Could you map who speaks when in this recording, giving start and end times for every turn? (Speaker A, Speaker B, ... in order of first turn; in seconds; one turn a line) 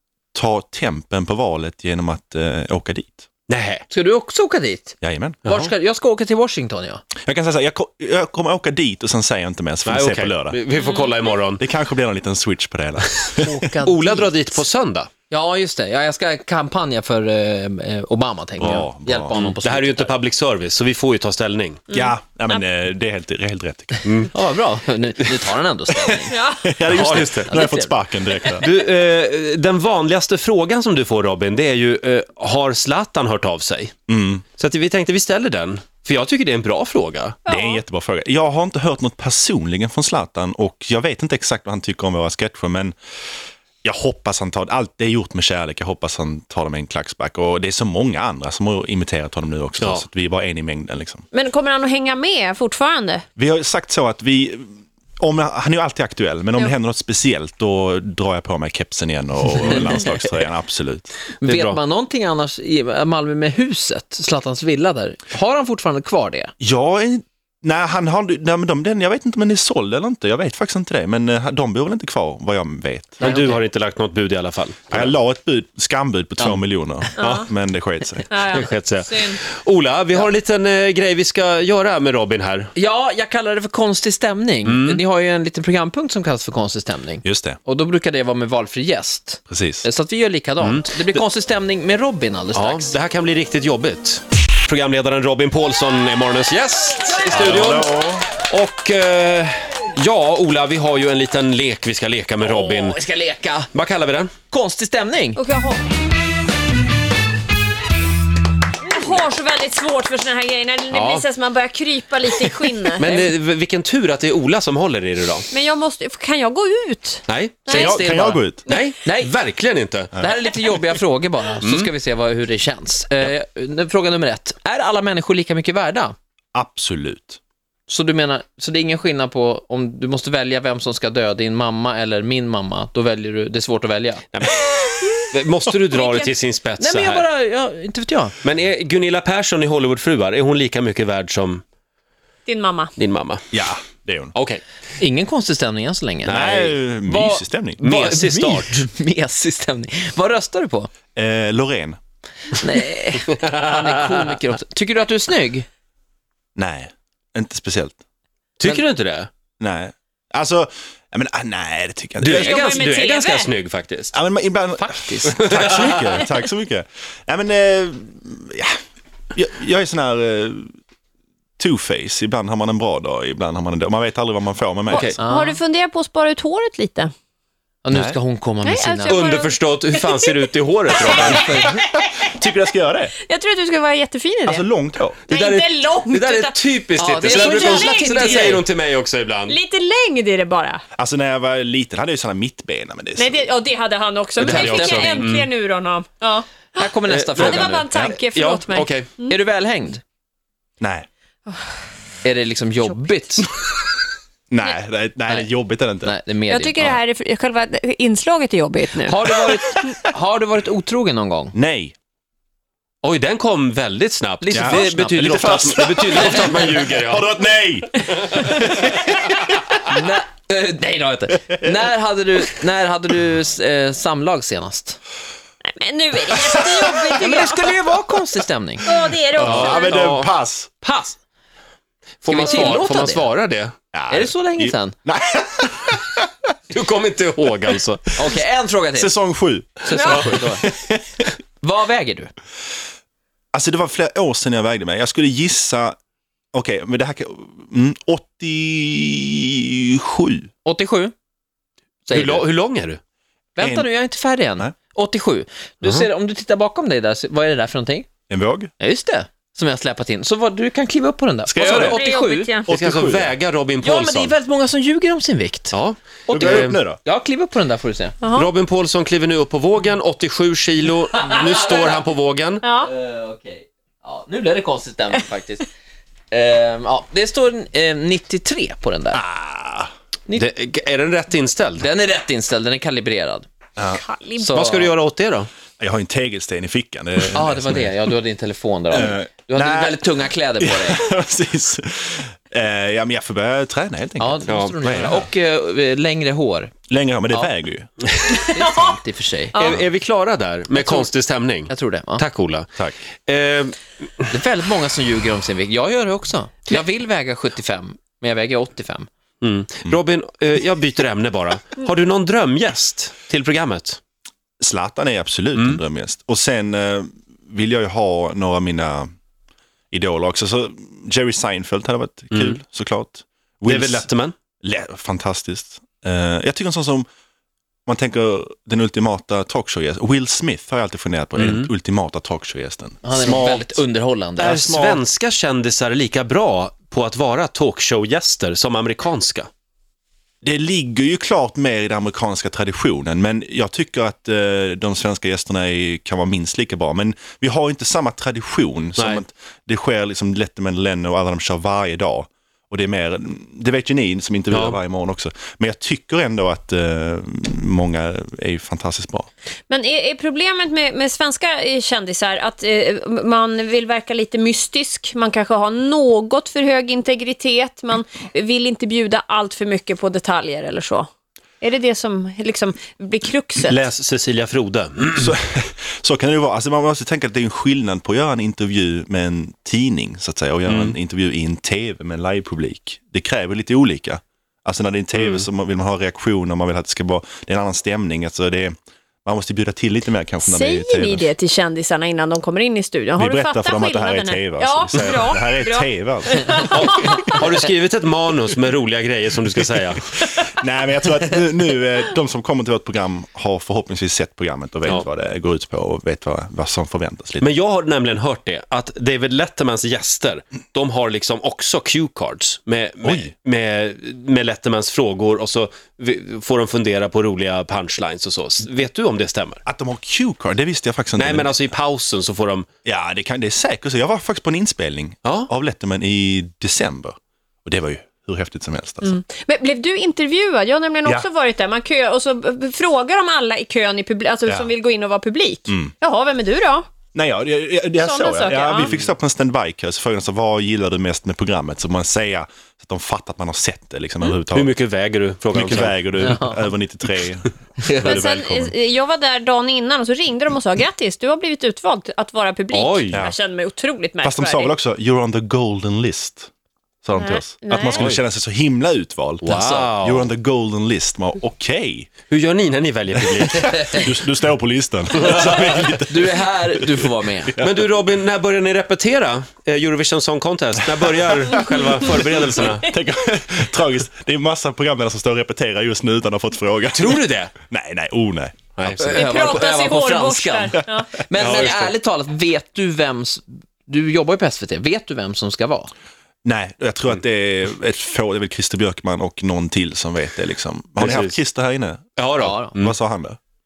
Speaker A: 0.3-3.3
Speaker B: 3.5-3.8
Speaker C: 3.9-7.0
Speaker A: 5.0-5.7
Speaker A: 7.2-10.6
Speaker B: 9.9-11.6
Speaker D: 10.8-11.2
Speaker A: 11.6-13.6
Speaker C: 13.3-14.5
Speaker B: 13.8-15.1
Speaker C: 15.3-20.2
Speaker A: 18.6-19.5
Speaker B: 19.4-21.8
Speaker D: 21.9-22.6
Speaker A: 21.9-24.0
Speaker B: 24.0-24.3
Speaker C: 24.3-26.4
Speaker A: 25.9-28.7
Speaker D: 26.3-26.8
Speaker B: 26.9-27.6
Speaker C: 27.1-28.6
Speaker B: 28.6-33.9
Speaker A: 34.1-34.4
Speaker B: 34.5-37.4
Speaker D: 37.5-37.8
Speaker A: 37.5-43.0
Speaker A: 43.8-51.2
Speaker B: 49.8-50.0
Speaker D: 51.3-53.2
Speaker A: 53.4-61.1
Speaker C: 61.4-66.5
Speaker B: 61.4-61.8
Speaker A: 66.6-73.4
Speaker C: 73.2-73.6
Speaker B: 73.2-75.1
Speaker A: 74.9-78.6
Speaker D: 77.2-77.5
Speaker D: 78.3-79.4
Speaker B: 78.5-82.7
Speaker C: 82.8-93.0
Speaker B: 84.6-85.0
Speaker A: 87.2-87.6
Speaker A: 89.5-89.9
Speaker B: 90.6-91.2
Speaker B: 92.5-103.0
Speaker A: 97.3-98.3
Speaker C: 102.4-103.7
Speaker B: 103.7-104.3
Speaker C: 104.5-105.4
Speaker D: 105.4-105.8
Speaker D: 108.9-113.2
Speaker B: 110.9-111.2
Speaker B: 113.0-115.5
Speaker D: 115.5-118.0
Speaker B: 117.3-117.8
Speaker A: 117.7-118.6
Speaker C: 117.8-118.4
Speaker B: 118.7-120.2
Speaker C: 119.0-119.3
Speaker C: 120.1-126.2
Speaker B: 121.6-121.9
Speaker A: 126.5-127.4
Speaker C: 127.9-134.2
Speaker B: 134.3-134.6
Speaker B: 135.2-137.3
Speaker D: 135.9-136.3
Speaker C: 136.8-138.4
Speaker B: 138.4-141.6
Speaker D: 142.5-142.9
Speaker B: 143.0-143.4
Speaker A: 143.5-144.3
Speaker B: 144.3-144.6
Speaker C: 145.0-146.5
Speaker B: 146.3-146.8
Speaker A: 146.3-147.8
Speaker C: 147.1-150.9
Speaker B: 147.8-148.8
Speaker A: 151.2-152.0
Speaker C: 152.6-155.7
Speaker B: 153.4-154.2
Speaker A: 156.6-158.0
Speaker B: 158.6-159.3
Speaker A: 159.6-162.8
Speaker B: 162.2-164.1
Speaker D: 162.3-163.5
Speaker A: 164.1-168.8
Speaker C: 164.8-166.2
Speaker B: 165.4-165.8
Speaker A: 169.3-170.7
Speaker A: 171.6-175.1
Speaker D: 174.9-177.1
Speaker C: 175.2-175.6
Speaker C: 177.8-179.3
Speaker A: 177.9-178.2
Speaker D: 178.6-180.3
Speaker B: 179.1-181.5
Speaker D: 181.1-181.4
Speaker C: 181.1-181.7
Speaker A: 181.5-183.2
Speaker D: 183.3-184.7
Speaker A: 184.5-185.2
Speaker D: 185.3-186.6
Speaker B: 185.3-189.6
Speaker C: 187.0-188.6
Speaker D: 187.2-188.6
Speaker D: 189.5-190.8
Speaker A: 191.0-193.5
Speaker D: 193.2-199.3
Speaker A: 194.4-195.3
Speaker B: 194.4-195.5
Speaker C: 194.7-195.0
Speaker C: 196.7-198.1
Speaker B: 197.1-199.1
Speaker C: 199.2-200.0
Speaker A: 200.8-201.1
Speaker C: 202.2-203.5
Speaker A: 204.5-206.2
Speaker C: 206.0-207.0
Speaker D: 206.5-209.3
Speaker C: 208.9-211.6
Speaker A: 211.5-211.9
Speaker B: 213.0-217.2
Speaker C: 214.4-216.8
Speaker A: 214.5-218.6
Speaker C: 218.5-219.0
Speaker C: 219.8-225.0
Speaker D: 225.6-227.8
Speaker A: 226.3-227.0
Speaker C: 227.2-228.8
Speaker D: 228.8-230.0
Speaker B: 229.4-230.3
Speaker A: 229.4-230.7
Speaker C: 229.4-229.8
Speaker C: 230.8-231.2
Speaker B: 232.2-233.7
Speaker C: 232.3-233.3
Speaker A: 233.9-236.3
Speaker C: 234.1-235.0
Speaker B: 236.7-238.1
Speaker C: 238.2-239.2
Speaker A: 238.9-241.0
Speaker C: 239.8-240.7
Speaker C: 241.6-242.3
Speaker A: 243.5-246.0
Speaker A: 246.5-250.5
Speaker C: 250.7-251.1
Speaker C: 252.1-252.5
Speaker B: 252.1-253.0
Speaker C: 253.6-258.1
Speaker A: 253.6-253.9
Speaker A: 258.3-258.7
Speaker C: 258.8-262.6
Speaker A: 261.5-262.0
Speaker D: 261.7-262.7
Speaker A: 262.7-263.3
Speaker B: 262.7-264.4
Speaker C: 263.8-265.8
Speaker B: 265.7-266.8
Speaker A: 266.3-267.0
Speaker C: 266.3-268.2
Speaker D: 268.2-268.5
Speaker B: 268.3-272.7
Speaker C: 271.1-272.1
Speaker D: 272.6-272.9
Speaker C: 272.8-275.7
Speaker C: 276.3-279.2
Speaker A: 279.1-279.9
Speaker B: 280.4-281.9
Speaker C: 281.8-283.5
Speaker A: 283.8-284.0
Speaker D: 283.9-284.6
Speaker C: 284.4-284.9
Speaker B: 284.5-285.5
Speaker A: 285.8-288.0
Speaker C: 287.3-291.1
Speaker A: 288.9-295.3
Speaker C: 294.2-296.7
Speaker B: 294.5-294.8
Speaker A: 296.9-297.9
Speaker D: 298.3-298.9
Speaker C: 298.5-299.6
Speaker B: 299.5-302.7
Speaker C: 300.8-301.1
Speaker C: 301.7-302.3
Speaker B: 303.3-303.9
Speaker C: 304.3-309.1
Speaker B: 309.4-314.0
Speaker A: 314.6-319.1
Speaker A: 319.9-324.1
Speaker B: 323.7-324.4
Speaker A: 324.6-327.1
Speaker A: 327.9-333.8
Speaker B: 331.4-331.7
Speaker C: 333.0-334.6
Speaker A: 334.4-335.0
Speaker B: 334.4-339.5
Speaker A: 340.4-359.3
Speaker B: 354.5-354.8
Speaker D: 359.7-371.1
Speaker D: 371.6-373.8
Speaker B: 373.6-375.3
Speaker A: 375.2-391.3
Speaker B: 380.7-380.9
Speaker B: 385.2-385.4
Speaker D: 390.4-397.3
Speaker A: 393.2-397.3
Speaker B: 396.7-400.1
Speaker A: 400.0-407.5
Speaker B: 407.4-419.6
Speaker A: 413.0-413.3
Speaker A: 419.7-421.6
Speaker B: 421.2-422.7
Speaker A: 422.9-429.2
Speaker D: 429.0-436.9
Speaker A: 435.7-435.9
Speaker A: 437.1-444.7
Speaker D: 438.0-439.0
Speaker B: 444.5-446.4
Speaker A: 445.5-448.8
Speaker D: 448.0-454.7
Speaker B: 452.7-453.2
Speaker A: 454.2-456.5
Speaker A: 457.0-459.5
Speaker D: 457.1-458.1
Speaker C: 459.4-459.9
Speaker B: 459.4-460.3
Speaker A: 460.0-462.1
Speaker B: 462.3-464.1
Speaker A: 463.1-467.9
Speaker B: 465.2-465.8
Speaker C: 465.3-467.5
Speaker B: 467.6-472.9
Speaker A: 471.0-479.0
Speaker B: 476.9-477.5
Speaker B: 478.8-479.4
Speaker C: 479.0-485.9
Speaker D: 479.1-481.2
Speaker B: 481.4-481.9
Speaker A: 481.4-481.7
Speaker A: 486.4-492.1
Speaker B: 491.0-491.4
Speaker B: 492.2-492.9
Speaker C: 492.4-492.8
Speaker A: 492.8-493.4